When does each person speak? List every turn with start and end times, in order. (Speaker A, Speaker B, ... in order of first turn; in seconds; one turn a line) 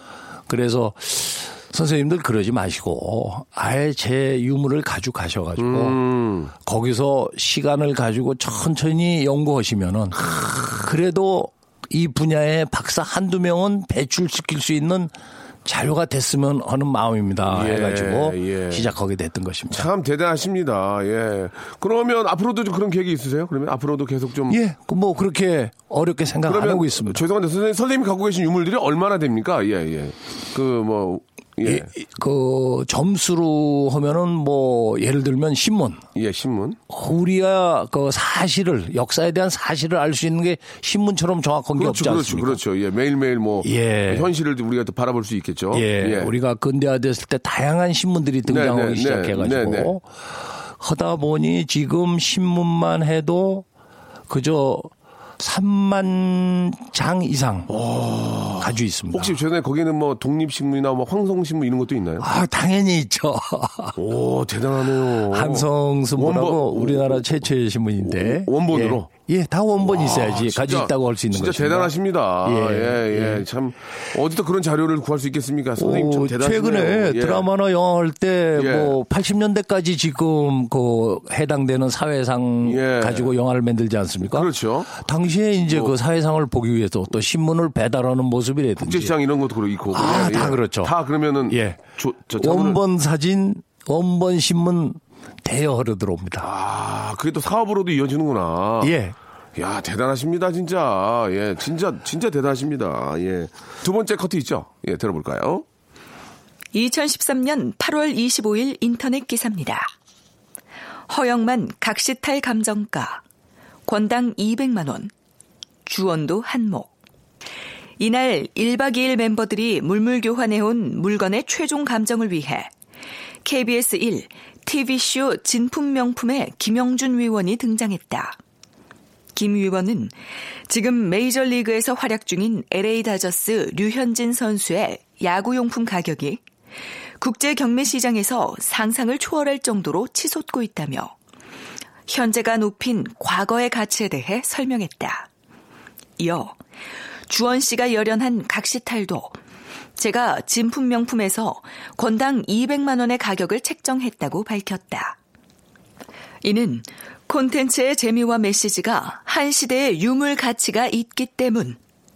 Speaker A: 0.5-6.0
Speaker B: 5.6-6.5
Speaker A: 6.6-15.1
Speaker A: 15.6-19.9
Speaker B: 17.5-18.9
Speaker B: 19.7-24.6
Speaker A: 24.5-27.2
Speaker B: 26.4-31.9
Speaker A: 31.6-36.0
Speaker B: 36.1-36.8
Speaker A: 36.9-42.6
Speaker B: 41.8-46.3
Speaker A: 43.6-44.3
Speaker A: 45.7-50.1
Speaker B: 48.5-49.9
Speaker A: 50.8-53.6
Speaker A: 54.3-57.7
Speaker B: 57.7-62.3
Speaker A: 58.6-59.4
Speaker A: 62.2-64.0
Speaker B: 64.0-67.2
Speaker A: 65.3-71.9
Speaker B: 68.0-69.1
Speaker B: 69.8-77.5
Speaker A: 72.4-73.4
Speaker A: 75.8-89.1
Speaker B: 78.5-79.0
Speaker B: 82.6-83.3
Speaker B: 84.3-84.9
Speaker B: 85.7-86.0
Speaker B: 88.8-92.8
Speaker A: 89.9-90.9
Speaker A: 91.5-91.8
Speaker A: 92.4-96.5
Speaker B: 96.4-98.9
Speaker A: 98.8-99.1
Speaker B: 99.6-105.6
Speaker C: 106.7-109.9
Speaker C: 111.1-113.2
Speaker C: 113.9-115.1
Speaker C: 115.9-116.9
Speaker C: 118.0-122.7
Speaker C: 123.4-128.4
Speaker C: 129.3-130.1
Speaker C: 130.7-136.4
Speaker C: 137.2-141.1
Speaker C: 142.1-145.3
Speaker C: 146.2-146.6
Speaker C: 147.3-149.4
Speaker C: 150.0-155.2
Speaker C: 156.4-161.8